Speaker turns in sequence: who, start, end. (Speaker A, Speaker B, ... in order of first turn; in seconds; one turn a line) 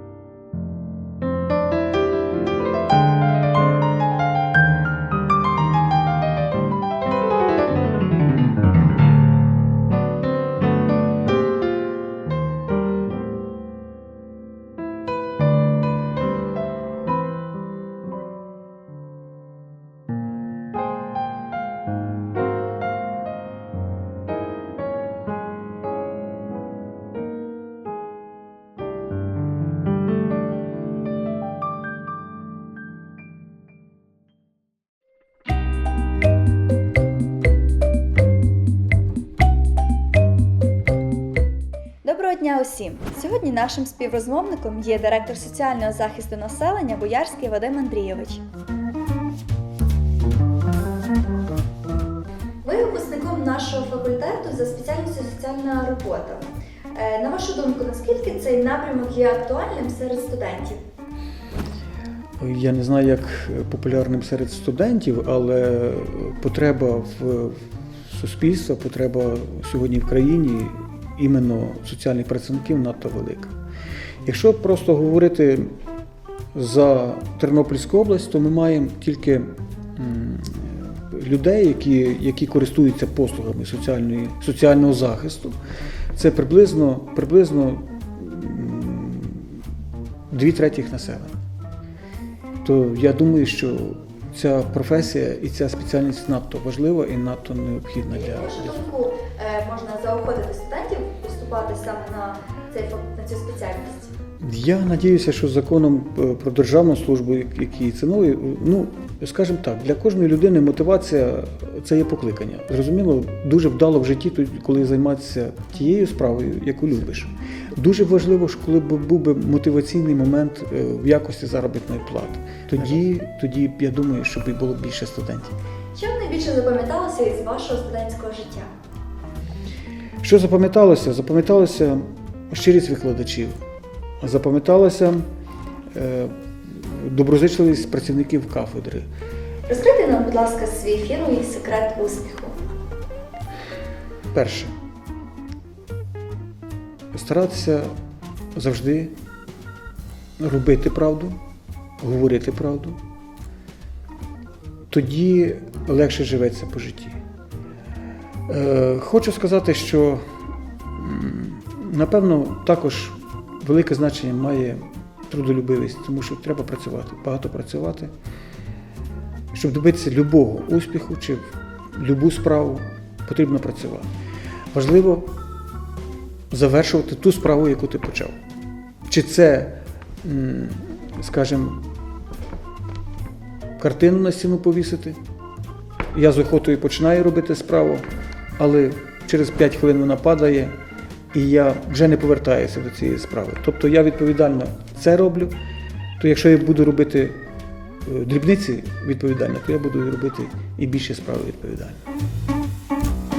Speaker A: 42.0-48.4
Speaker A: 52.6-60.8
Speaker B: 62.4-73.5
Speaker B: 74.2-75.7
Speaker B: 76.5-85.5
Speaker B: 86.2-89.6
Speaker B: 90.3-91.3
Speaker B: 92.6-98.9
Speaker A: 98.1-104.1
Speaker B: 104.4-125.5
Speaker A: 126.0-128.7
Speaker B: 130.2-133.6
Speaker B: 134.2-135.2
Speaker B: 135.9-139.1
Speaker A: 139.7-142.5
Speaker B: 144.3-144.7
Speaker B: 147.1-147.9
Speaker B: 148.6-149.1
Speaker B: 150.4-151.4
Speaker B: 152.0-153.0
Speaker B: 154.9-157.2
Speaker B: 158.5-160.2
Speaker B: 161.0-168.1
Speaker B: 169.5-174.1
Speaker B: 174.7-175.3
Speaker B: 176.5-178.4
Speaker B: 179.1-181.8
Speaker B: 183.8-185.2
Speaker B: 186.1-188.1
Speaker B: 188.6-190.7
Speaker B: 191.3-195.5
Speaker B: 196.2-197.4
Speaker B: 198.1-202.0